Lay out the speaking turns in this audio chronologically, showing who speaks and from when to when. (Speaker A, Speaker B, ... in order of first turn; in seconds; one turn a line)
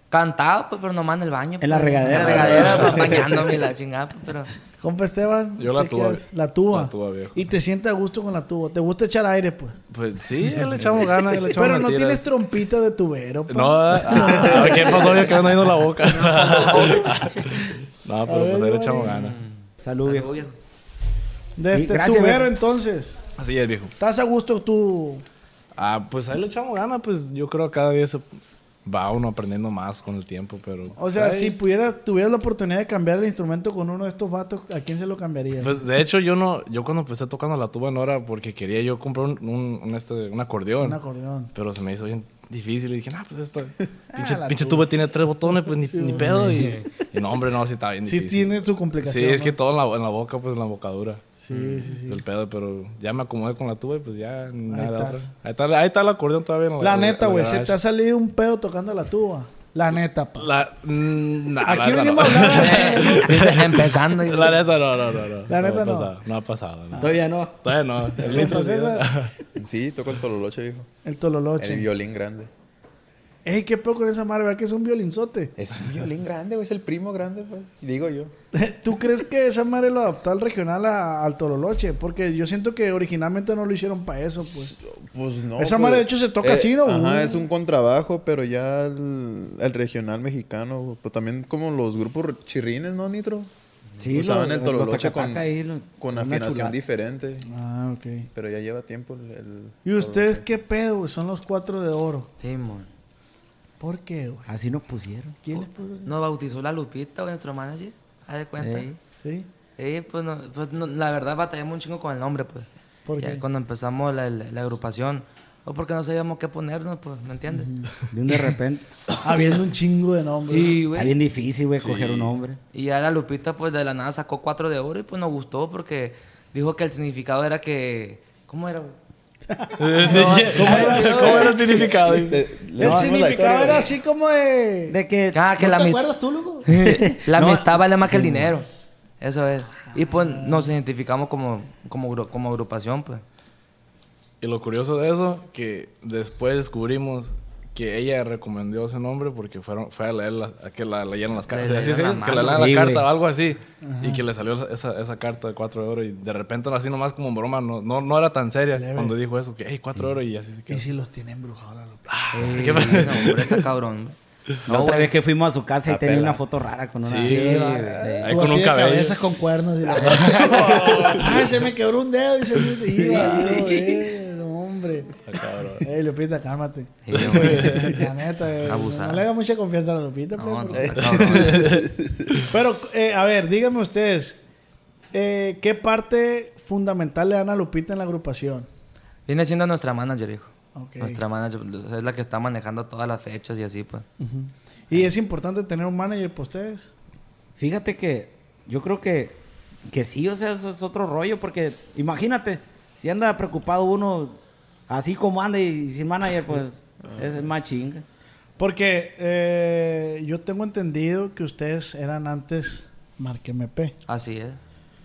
Speaker A: 0.1-4.5
Speaker B: 1.6-3.5
Speaker C: 2.2-2.8
Speaker C: 4.8-9.8
Speaker D: 5.6-7.5
Speaker D: 9.9-12.3
Speaker C: 10.5-17.4
Speaker D: 13.5-19.4
Speaker A: 16.4-17.2
Speaker C: 18.2-19.2
Speaker A: 19.1-20.5
Speaker B: 19.8-20.4
Speaker C: 21.6-23.2
Speaker B: 21.7-22.5
Speaker D: 23.4-23.9
Speaker C: 24.0-25.2
Speaker D: 25.8-28.2
Speaker D: 28.9-31.6
Speaker C: 31.0-35.8
Speaker D: 35.6-41.0
Speaker C: 40.8-41.5
Speaker D: 41.5-57.8
Speaker C: 44.1-44.9
Speaker C: 45.5-46.8
Speaker C: 48.1-49.5
Speaker C: 51.4-52.2
Speaker C: 54.7-55.3
Speaker C: 56.8-60.5
Speaker D: 60.4-69.3
Speaker C: 61.6-63.4
Speaker A: 62.5-64.6
Speaker C: 65.5-66.1
Speaker C: 66.9-67.2
Speaker B: 67.0-67.6
Speaker C: 68.2-69.1
Speaker B: 68.3-68.5
Speaker E: 69.6-70.9
Speaker C: 71.0-71.9
Speaker E: 71.6-72.5
Speaker C: 73.5-75.5
Speaker E: 75.6-78.3
Speaker C: 78.5-84.7
Speaker E: 84.4-93.5
Speaker C: 85.6-87.5
Speaker B: 94.0-96.8
Speaker E: 94.1-97.5
Speaker C: 97.5-98.3
Speaker E: 98.3-100.5
Speaker C: 99.8-102.3
Speaker A: 102.4-102.9
Speaker C: 103.8-104.5
Speaker B: 104.5-105.6
Speaker C: 105.4-106.1
Speaker A: 106.0-108.9
Speaker B: 108.6-109.0
Speaker C: 109.2-109.5
Speaker A: 109.8-112.7
Speaker C: 113.1-113.4
Speaker A: 113.2-117.7
Speaker C: 117.5-117.9
Speaker B: 118.1-118.9
Speaker C: 119.2-120.8
Speaker A: 120.5-121.2
Speaker B: 121.0-122.6
Speaker D: 121.8-122.3
Speaker A: 122.7-129.0
Speaker C: 129.5-132.1
Speaker D: 129.8-132.4
Speaker A: 130.1-131.7
Speaker E: 132.1-134.0
Speaker C: 132.8-135.0
Speaker B: 132.8-133.4
Speaker B: 134.9-135.4
Speaker A: 135.3-136.0
Speaker C: 135.6-136.7
Speaker A: 136.7-138.7
Speaker B: 136.7-138.5
Speaker A: 139.2-143.2
Speaker C: 139.9-140.7
Speaker D: 144.4-160.9
Speaker A: 151.5-152.7
Speaker B: 152.5-153.1
Speaker C: 153.8-154.2
Speaker C: 158.8-159.2
Speaker C: 160.7-162.0
Speaker D: 162.1-163.6
Speaker A: 162.3-165.1
Speaker B: 164.7-168.3
Speaker E: 165.9-166.4
Speaker D: 167.0-167.6
Speaker A: 167.2-168.3
Speaker D: 168.2-169.2
Speaker C: 168.3-175.2
Speaker D: 170.0-171.2
Speaker E: 170.0-171.3
Speaker B: 173.0-173.8
Speaker E: 173.1-173.5
Speaker D: 175.3-175.9
Speaker C: 175.8-181.4
Speaker A: 177.1-177.9
Speaker D: 177.2-178.0
Speaker A: 178.6-179.2
Speaker A: 180.4-181.8
Speaker E: 180.7-182.3
Speaker D: 181.0-181.9
Speaker C: 182.5-184.4
Speaker C: 185.1-188.7
Speaker A: 189.3-194.1
Speaker C: 190.8-191.2
Speaker C: 194.2-196.9
Speaker B: 197.6-208.0
Speaker C: 208.6-213.9
Speaker A: 214.1-214.6